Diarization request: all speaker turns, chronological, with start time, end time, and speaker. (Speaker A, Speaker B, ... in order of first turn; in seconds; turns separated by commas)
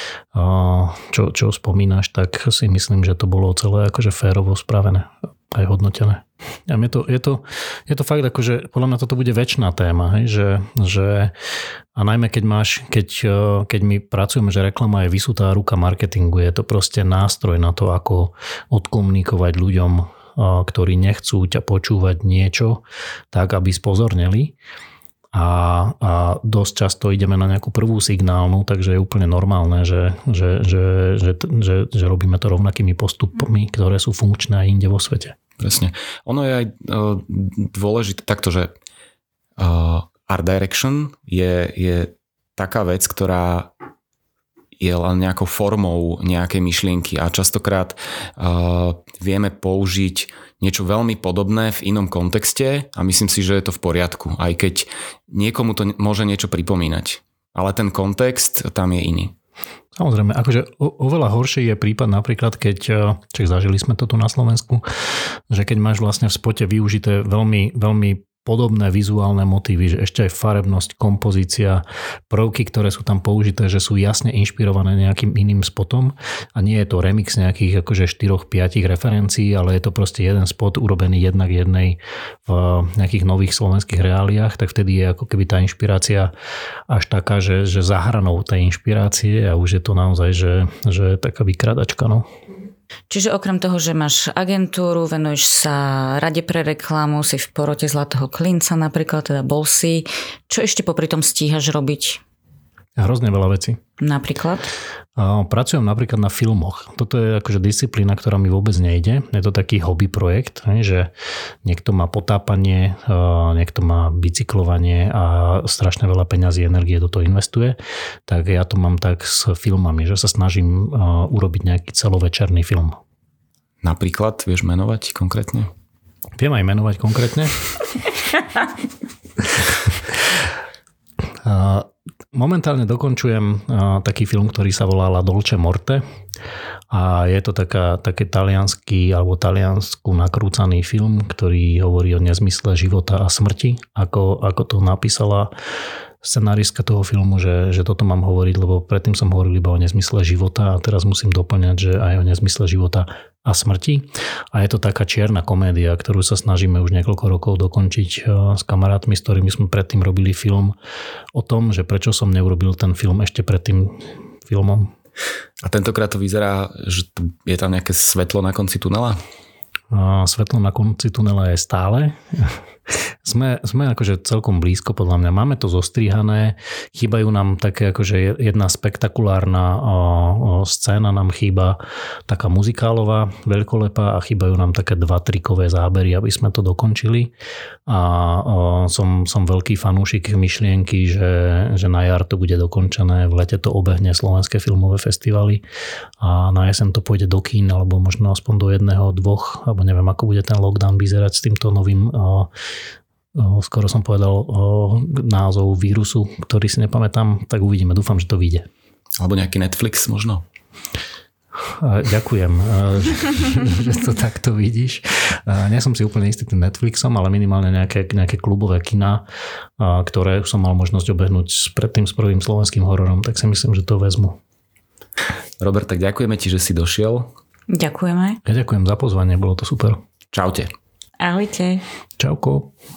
Speaker A: 0.3-11.3, Speaker A: 11.9-24.5, Speaker A: 25.3-35.4, Speaker B: 35.6-38.7, Speaker B: 39.6-43.7, Speaker B: 44.8-59.3, Speaker A: 60.0-64.8, Speaker A: 65.5-86.3, Speaker A: 86.9-92.3, Speaker C: 93.1-102.2, Speaker A: 103.0-103.8, Speaker C: 104.0-104.7, Speaker A: 105.2-111.1, Speaker A: 111.6-123.0, Speaker B: 123.8-125.7, Speaker A: 126.4-127.8, Speaker A: 131.4-136.0, Speaker A: 136.9-145.5, Speaker A: 146.2-160.7, Speaker A: 161.3-164.9, Speaker B: 165.6-169.2, Speaker A: 169.9-187.3, Speaker A: 187.9-195.6, Speaker A: 196.2-202.5, Speaker A: 203.3-208.7, Speaker B: 209.2-210.4, Speaker A: 211.8-219.2, Speaker A: 219.8-224.4, Speaker B: 225.6-227.3, Speaker C: 227.7-228.4, Speaker A: 228.4-230.0, Speaker B: 230.3-230.7, Speaker C: 231.2-231.8, Speaker A: 232.2-232.7